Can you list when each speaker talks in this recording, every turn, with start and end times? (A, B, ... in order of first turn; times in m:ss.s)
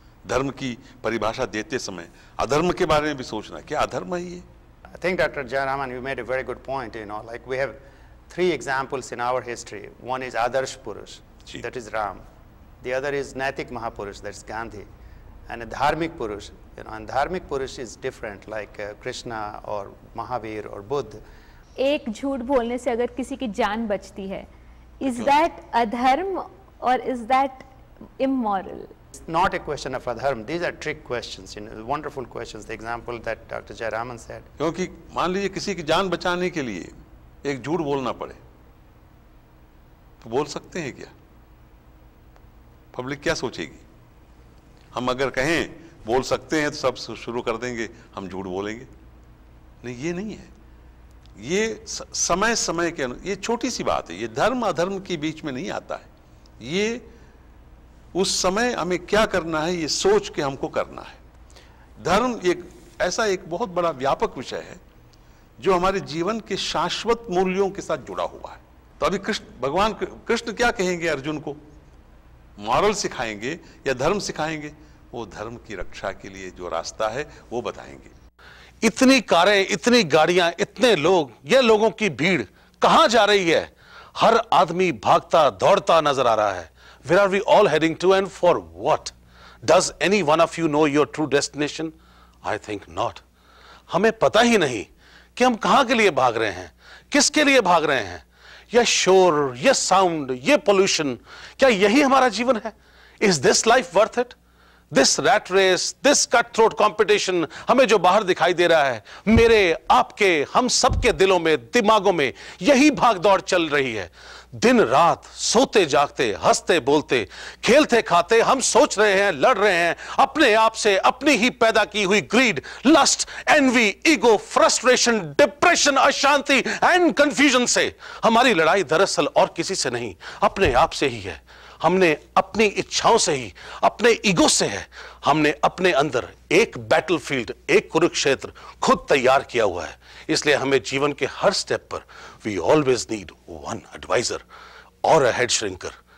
0:00.2-0:04.4 A
0:05.0-0:07.8 B
0:08.3-0:12.2 B
0:12.8-0:14.9 B
0:15.5-0:21.2 B
0:21.8-0:24.5 C
0:25.0-0:27.6 C
0:25.1-0:25.3 A
0:28.2-0:28.9 C
0:29.2-0:34.5 B
0:34.6-0:38.4 A
0:40.2-0:41.1 A
0:42.9-0:43.8 A
0:44.9-0:48.9 A
0:49.8-0:50.5 A
0:51.4-0:56.1 A
0:56.6-0:57.1 A
0:58.1-1:01.2 A
1:02.0-1:04.8 A
1:05.6-1:11.6 A
1:12.6-1:18.1 A
1:18.8-1:29.1 D
1:29.6-1:33.2 D
1:33.9-1:44.3 D
1:44.9-2:24.4 D
2:25.0-2:26.0 D